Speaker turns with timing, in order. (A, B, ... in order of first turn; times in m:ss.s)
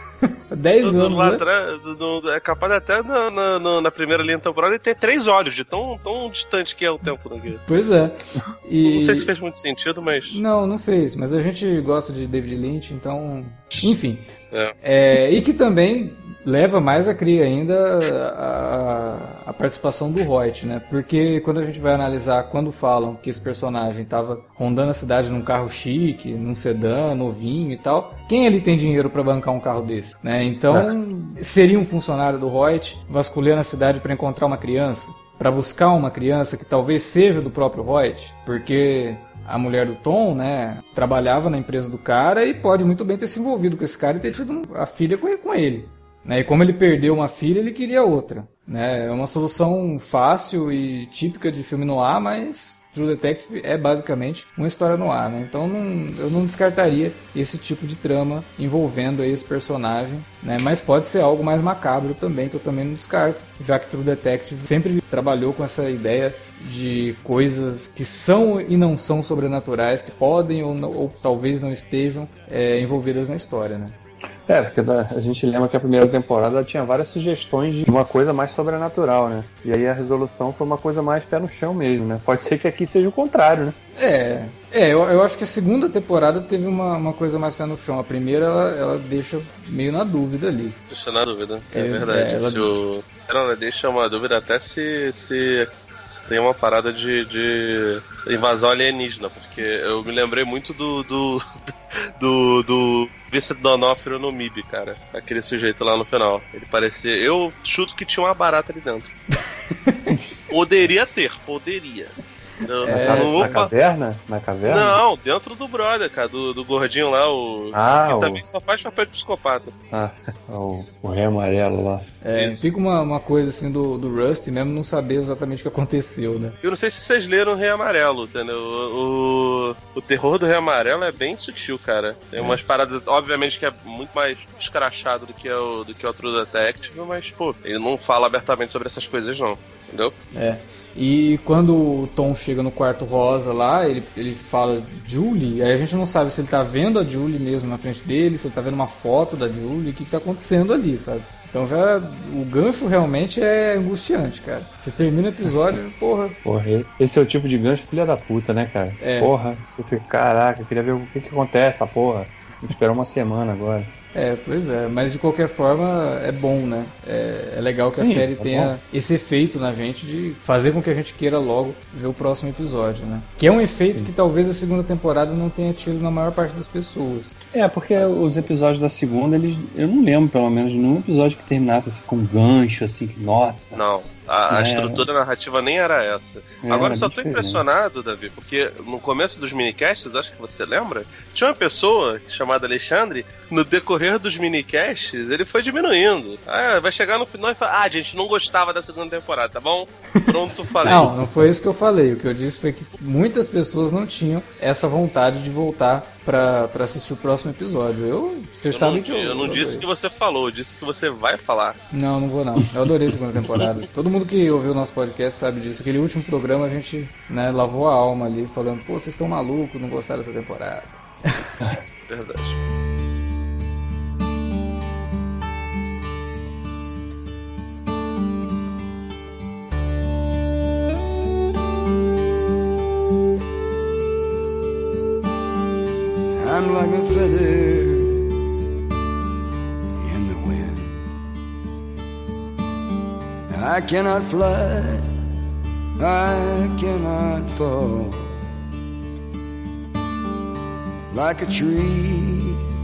0:00.2-0:01.4 A
0:00.8-0:07.6 B
0:07.7-0:09.3 A
0:08.8-0:10.4 B
0:10.3-0:14.3 A
0:14.8-1:14.0 A
0:30.7-0:31.0 C
1:14.5-1:23.8 C
1:24.0-1:30.8 A
1:30.9-1:49.2 B
1:31.7-1:32.7 A
1:49.3-1:50.2 A
1:50.5-1:53.7 B
1:52.8-1:53.6 A
1:52.9-1:55.0 C
1:54.7-1:59.7 B
1:57.7-1:58.4 C
1:59.9-2:02.1 C
2:02.2-2:06.6 A
2:02.4-2:02.6 B
2:06.6-2:20.2 B
2:20.3-2:36.4 A
2:36.4-2:43.9 C
2:39.0-2:39.3 A
2:44.1-2:57.4 A
2:48.0-2:48.7 C
2:57.5-3:03.8 C
3:03.8-3:21.1 B
3:04.5-3:05.1 C
3:06.6-3:07.6 C
3:20.8-3:29.9 A
3:20.8-3:21.1 C
3:28.7-3:31.8 B
3:31.9-3:41.6 A
3:42.1-3:42.6 B
3:56.4-3:58.3 D
4:00.0-4:01.0 D
4:03.5-4:05.1 D
4:06.0-4:08.4 D
4:11.1-4:12.6 D